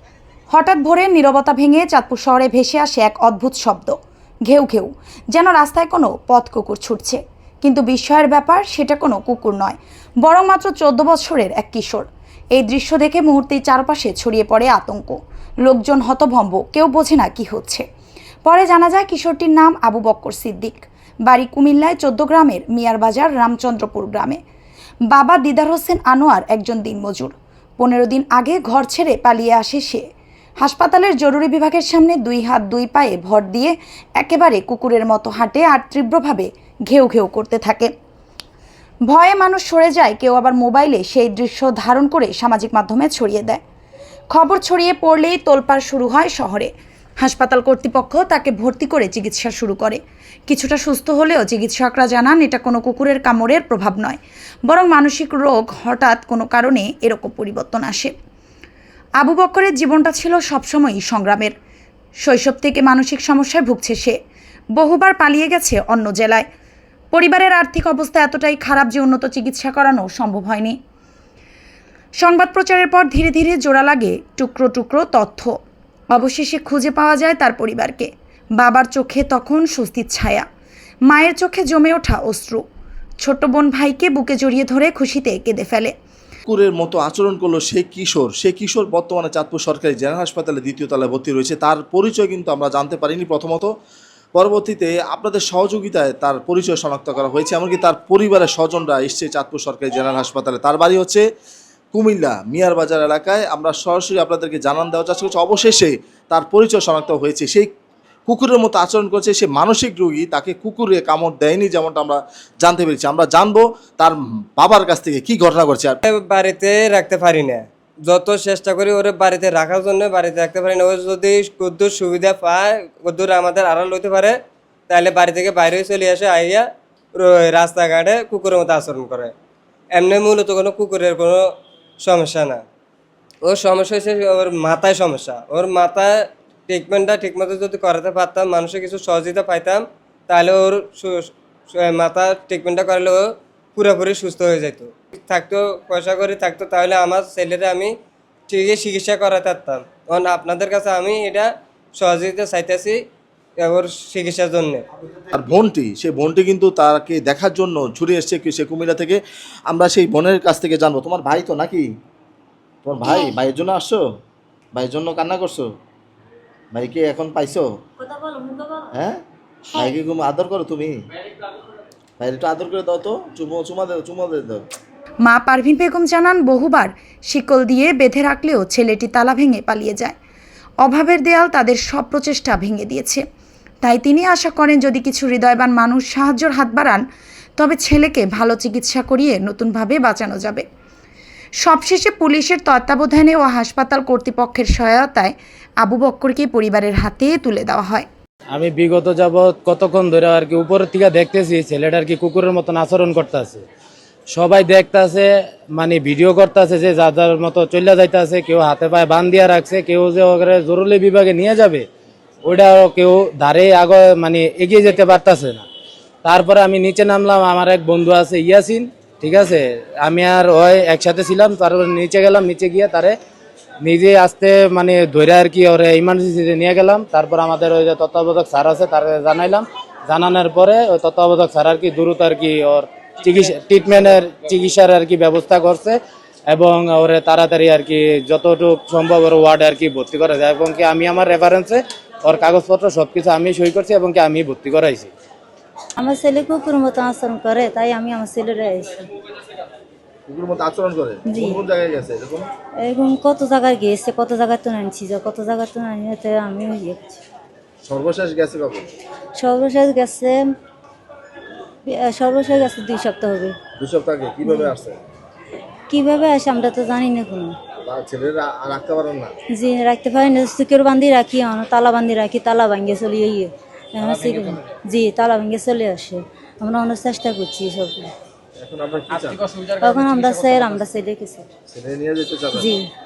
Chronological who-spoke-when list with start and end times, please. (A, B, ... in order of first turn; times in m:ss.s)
0:00.5-0:17.8 A
0:18.4-0:24.4 A
0:25.1-0:30.0 A
0:30.6-0:37.9 A
0:39.1-0:43.6 A
0:44.3-0:46.7 A
0:47.2-0:58.1 A
0:59.2-1:01.5 A
1:02.2-1:04.2 A
1:04.8-1:06.4 A
1:07.1-1:10.8 A
1:12.2-1:15.5 A
1:16.1-1:20.4 A
1:21.1-1:22.6 A
1:23.2-1:25.9 A
1:26.5-1:33.7 B
1:34.4-1:41.2 B
1:41.9-1:47.7 B
1:48.3-1:56.0 B
1:56.0-2:04.4 C
2:04.9-2:09.3 C
2:09.9-2:11.4 C
2:12.0-2:12.6 C
2:13.4-2:16.1 C
2:16.7-2:27.9 C
2:28.5-2:33.0 C
2:33.6-2:34.8 C
2:35.3-2:41.8 B
2:42.8-2:44.0 B
2:44.8-2:45.7 B
2:46.7-2:47.6 B
2:48.9-2:49.2 B
2:49.7-2:50.9 B
2:52.2-2:54.6 B
2:55.2-3:00.2 A
3:00.8-3:03.2 A
3:03.8-3:07.0 A
3:07.6-3:10.6 A
3:11.6-3:18.1 A
3:18.5-3:23.6 D
3:24.3-3:31.9 D
3:32.4-3:35.6 D
3:36.2-3:43.2 D
3:43.8-4:05.1 D
4:06.0-4:09.1 E
4:10.3-4:12.5 B
4:11.3-4:11.6 E
4:12.8-4:17.2 E
4:17.8-4:18.9 B
4:19.4-4:20.4 E
4:21.9-4:23.6 E
4:23.8-4:25.0 B
4:24.4-4:24.7 E
4:25.9-4:27.6 E
4:27.8-4:29.3 B
4:29.5-4:38.1 E
4:38.6-4:39.5 B
4:39.7-4:41.5 E
4:41.7-4:42.7 B
4:42.5-4:42.9 E